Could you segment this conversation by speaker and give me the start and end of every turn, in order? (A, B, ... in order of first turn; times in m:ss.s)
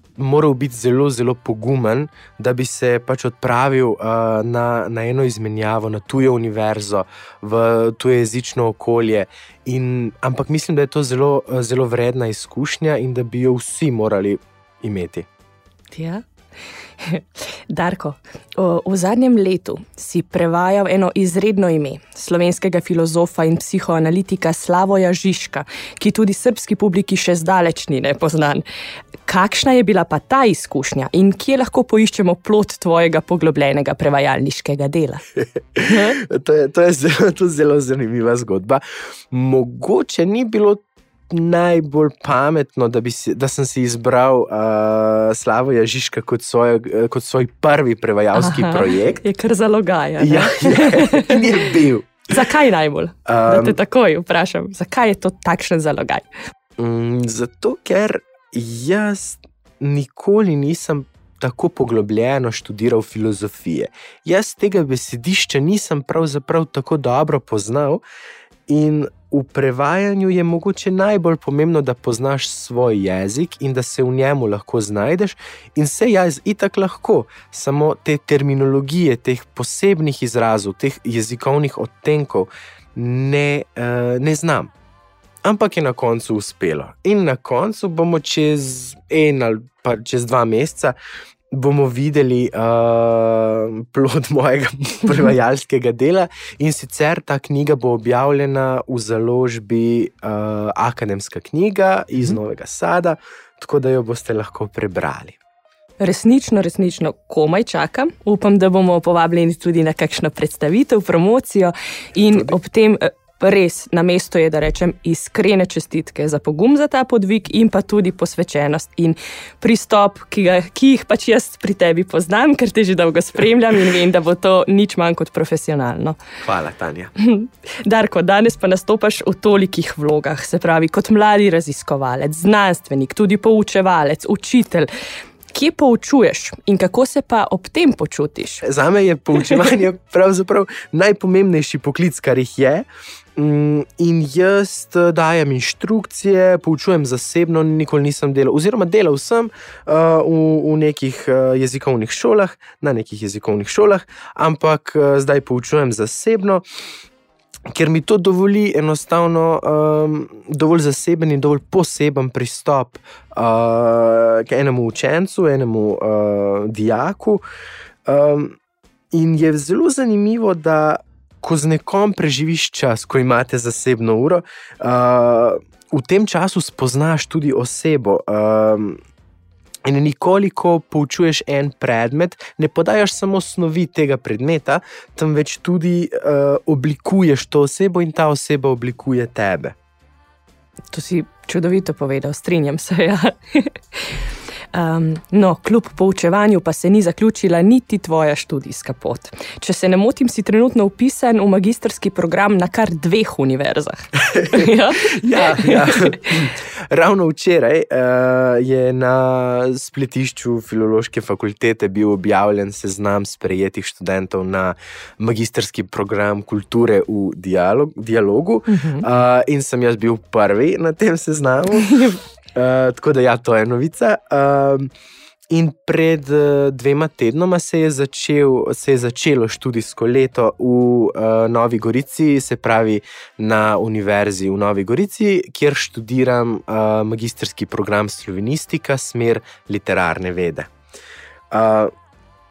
0:00.2-0:15.3 A
0:15.9-0:16.2 B
0:17.0-0:28.6 B
0:29.3-0:35.2 B
0:35.8-0:49.2 A
0:35.9-0:36.2 B
0:48.4-0:51.7 B
0:50.2-0:52.3 A
0:52.3-0:56.2 B
0:53.3-0:53.8 A
0:56.8-1:08.0 A
1:08.7-1:24.7 A
1:25.4-1:31.0 A
1:31.5-1:45.4 A
1:46.0-2:06.2 B
2:06.4-2:07.1 A
2:07.2-2:14.9 B
2:15.5-2:18.6 B
2:18.6-2:36.6 A
2:37.7-2:47.4 A
2:48.1-2:48.6 A
2:49.1-2:59.0 A
2:59.9-3:09.8 A
3:10.9-3:14.2 B
3:14.7-3:26.2 B
3:24.3-3:44.9 A
3:38.7-3:39.1 B
3:41.8-3:42.2 B
3:45.5-4:00.7 A
4:01.5-4:01.9 A